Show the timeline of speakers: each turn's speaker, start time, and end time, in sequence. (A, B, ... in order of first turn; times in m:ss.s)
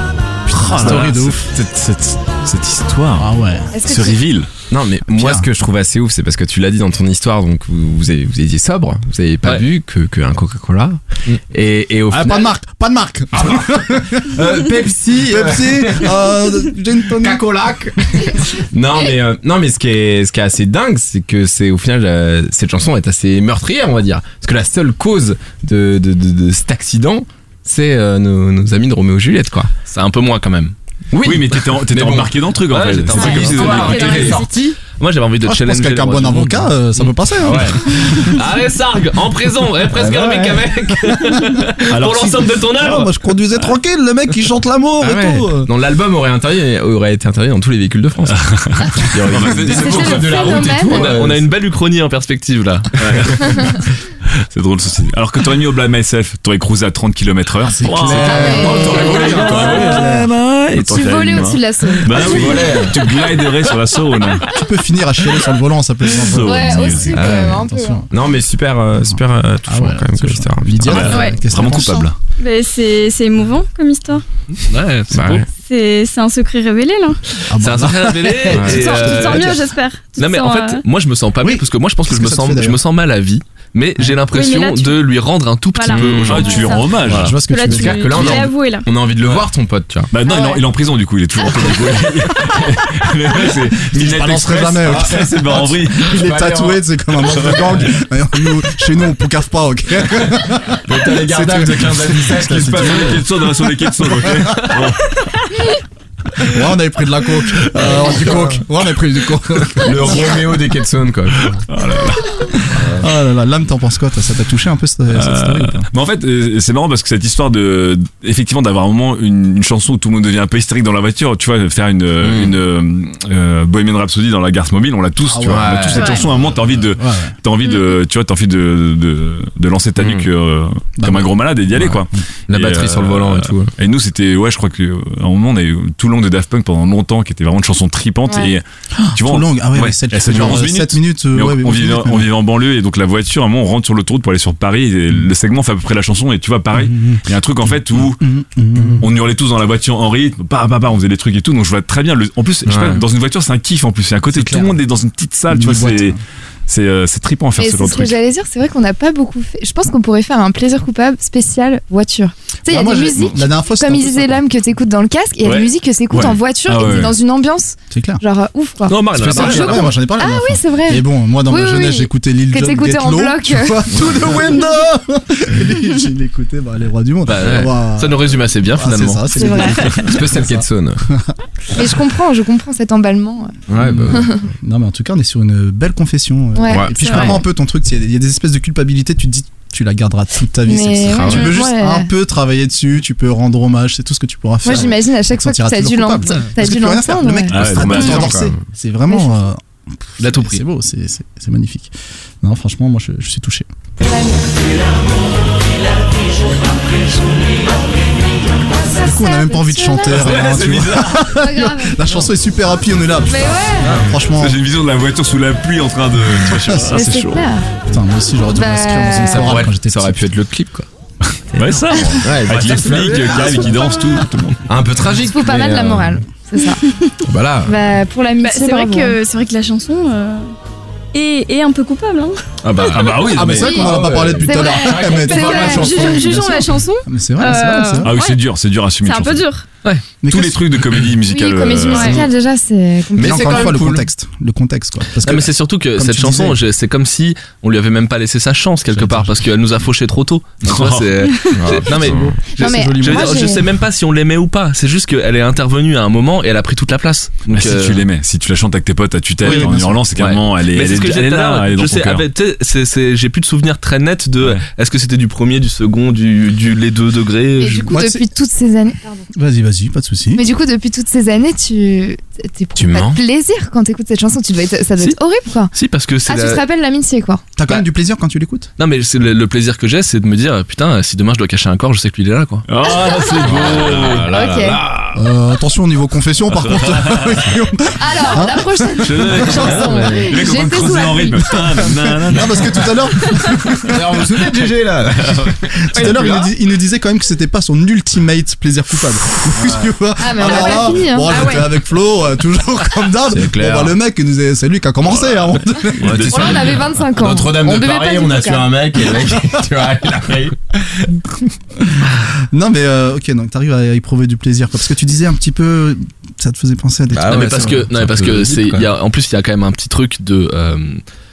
0:00.5-0:03.3 A
0:00.5-0:01.5 B
0:00.8-0:01.1 C
0:03.2-0:03.7 B
0:03.7-0:04.2 D
0:03.8-0:04.5 A
0:04.7-0:12.5 E
0:05.1-0:05.5 B
0:12.1-0:14.5 B
0:13.4-0:16.3 E
0:15.1-0:17.5 B
0:17.2-0:29.7 E
0:29.9-0:30.7 C
0:31.1-0:32.4 E
0:31.2-0:34.3 A
0:32.7-0:37.1 C
0:33.1-0:34.8 E
0:33.6-0:34.5 F
0:35.4-0:38.3 B
0:37.3-0:38.4 E
0:38.1-0:43.1 C
0:39.9-0:40.7 E
0:41.8-0:42.5 A
0:42.8-0:45.7 B
0:45.0-0:51.5 E
0:48.4-0:50.7 A
0:49.7-0:51.2 D
0:50.8-0:53.6 C
0:53.0-0:53.8 A
0:54.5-1:04.5 A
0:57.6-1:00.3 B
0:58.0-1:00.1 E
0:58.3-0:59.9 D
1:00.8-1:02.7 D
1:02.1-1:03.1 E
1:04.4-1:08.1 B
1:06.1-1:07.2 A
1:06.4-1:08.1 D
1:07.1-1:11.1 E
1:09.1-1:12.1 B
1:10.8-1:12.2 A
1:11.1-1:11.5 F
1:12.4-1:14.2 F
1:14.5-1:15.5 C
1:15.1-1:15.5 E
1:15.6-1:17.2 F
1:17.5-1:19.6 B
1:17.6-1:19.6 C
1:18.5-1:18.8 E
1:18.7-1:20.8 F
1:20.2-1:27.4 C
1:21.4-1:22.8 B
1:24.3-1:25.0 F
1:25.7-1:28.9 F
1:25.9-1:26.6 E
1:26.2-1:27.4 A
1:27.1-1:28.5 B
1:27.6-1:30.1 E
1:30.1-1:36.1 A
1:30.2-1:30.6 D
1:33.9-1:44.7 B
1:34.8-1:37.9 E
1:37.3-1:37.9 A
1:40.8-1:43.3 E
1:42.6-1:45.1 A
1:46.4-1:50.5 B
1:48.0-1:48.4 E
1:49.8-1:51.6 E
1:51.7-1:52.7 A
1:52.7-1:53.1 E
1:53.0-1:55.8 B
1:55.1-2:28.3 A
2:02.2-2:02.6 E
2:05.3-2:07.4 B
2:05.5-2:06.2 E
2:06.0-2:06.2 F
2:07.6-2:08.0 F
2:10.0-2:10.3 E
2:11.0-2:12.0 B
2:12.5-2:13.8 E
2:18.3-2:18.5 D
2:19.0-2:22.3 B
2:26.8-2:29.1 B
2:28.9-2:38.2 A
2:32.7-2:33.0 E
2:34.3-2:34.7 E
2:35.5-2:36.2 B
2:37.6-2:53.8 D
2:42.7-2:44.4 B
2:45.4-2:47.2 A
2:47.9-2:48.2 B
2:48.9-2:50.0 C
2:49.2-3:01.3 B
2:49.2-2:49.6 E
2:54.0-2:54.6 E
2:57.3-2:59.5 C
2:59.3-3:00.0 D
2:59.5-2:59.9 F
3:00.0-3:01.0 E
3:01.7-3:03.5 D
3:03.7-3:04.3 E
3:03.8-3:23.7 B
3:04.1-3:04.4 D
3:06.6-3:06.9 D
3:06.7-3:07.4 E
3:07.0-3:07.4 F
3:10.7-3:12.1 D
3:11.0-3:11.6 E
3:14.6-3:18.1 D
3:16.3-3:16.5 C
3:17.5-3:18.4 A
3:17.7-3:18.6 E
3:19.1-3:19.5 D
3:20.2-3:20.6 C
3:24.0-3:24.4 D
3:28.8-3:30.4 D
3:28.9-3:34.6 B
3:30.1-3:31.3 A
3:31.2-3:32.1 D
3:33.2-3:33.9 D
3:33.8-3:34.1 E
3:34.3-3:37.5 A
3:36.4-3:36.9 B
3:36.9-3:37.7 D
3:37.9-3:40.3 B
3:38.5-3:39.6 D
3:39.3-3:40.9 E
3:41.6-3:44.7 A
3:42.2-3:44.0 E
3:44.7-3:46.2 E
3:45.2-3:46.8 D
3:47.3-3:47.8 E
3:47.6-3:49.2 D
3:48.4-3:50.5 F
3:51.1-3:52.4 F
3:52.6-3:56.6 E
3:52.9-3:53.7 A
3:53.2-3:58.1 B
3:53.5-3:56.2 D
3:55.5-3:58.5 F
3:58.0-3:59.4 A
3:59.0-3:59.7 F
4:00.2-4:00.7 B
4:00.3-4:02.2 A
4:01.3-4:03.8 D
4:01.9-4:02.2 F
4:03.2-4:04.1 E
4:03.2-4:06.6 B
4:05.2-4:18.0 C
4:08.9-4:09.4 B
4:10.6-4:11.1 A
4:11.5-4:12.4 E
4:11.9-4:13.5 B
4:12.5-4:13.6 D
4:17.5-4:22.3 A
4:19.4-4:28.1 C
4:19.4-4:20.0 B
4:27.6-4:29.3 D
4:27.9-4:28.2 B
4:29.3-4:30.4 B
4:30.4-4:35.7 D
4:32.8-4:33.2 E
4:35.7-4:36.6 C
4:36.3-4:37.4 D
4:37.6-4:38.7 B
4:38.8-4:42.7 C
4:42.7-4:44.9 A
4:42.9-4:44.8 D
4:43.4-4:45.1 E
4:45.1-4:49.6 B
4:46.6-4:47.4 A
4:48.0-4:51.8 D
4:49.1-4:52.9 A
4:49.3-4:49.5 C
4:49.4-4:50.3 E
4:51.9-4:54.2 B
4:53.9-4:56.5 E
4:55.9-5:06.5 B
4:59.6-5:00.6 E
5:00.2-5:01.4 D
5:01.3-5:01.7 F
5:03.3-5:04.0 E
5:06.0-5:06.8 A
5:06.0-5:11.1 E
5:06.3-5:08.7 D
5:12.5-5:17.8 B
5:17.1-5:18.9 E
5:17.3-5:21.0 C